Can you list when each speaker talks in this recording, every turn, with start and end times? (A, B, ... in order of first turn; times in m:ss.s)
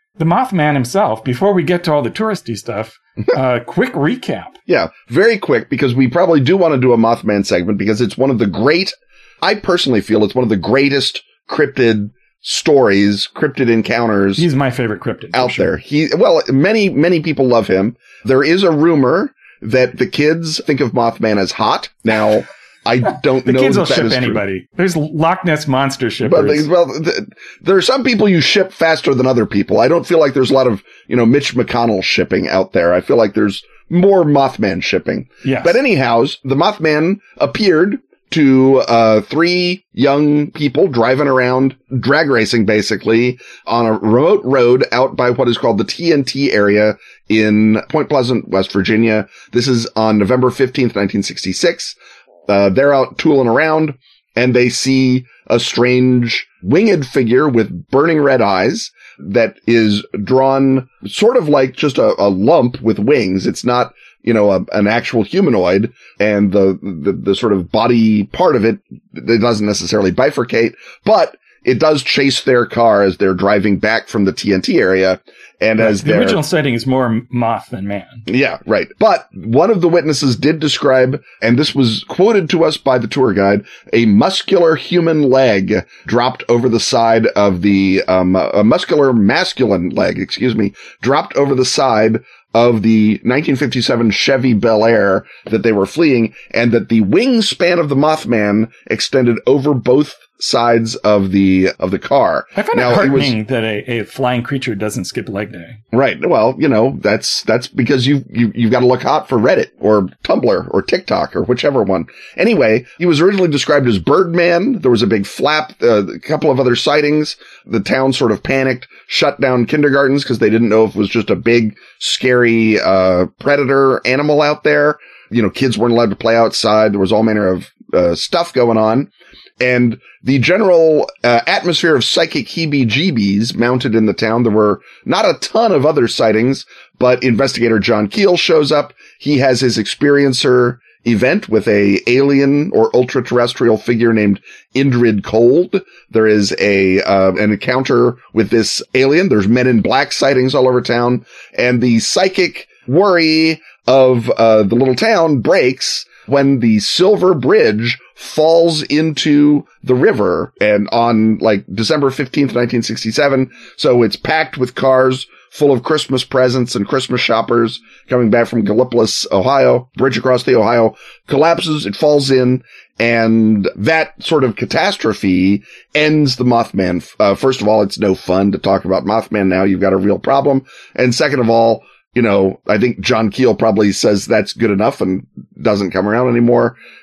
0:00.2-0:04.6 A
0:04.7-0:14.4 B
0:14.4-0:15.7 A
0:15.3-0:24.4 B
0:23.4-0:26.7 A
0:26.2-1:16.4 B
0:35.4-0:35.8 A
1:15.8-1:18.3 A
1:18.3-1:43.4 B
1:42.6-1:45.8 A
1:45.9-3:06.8 B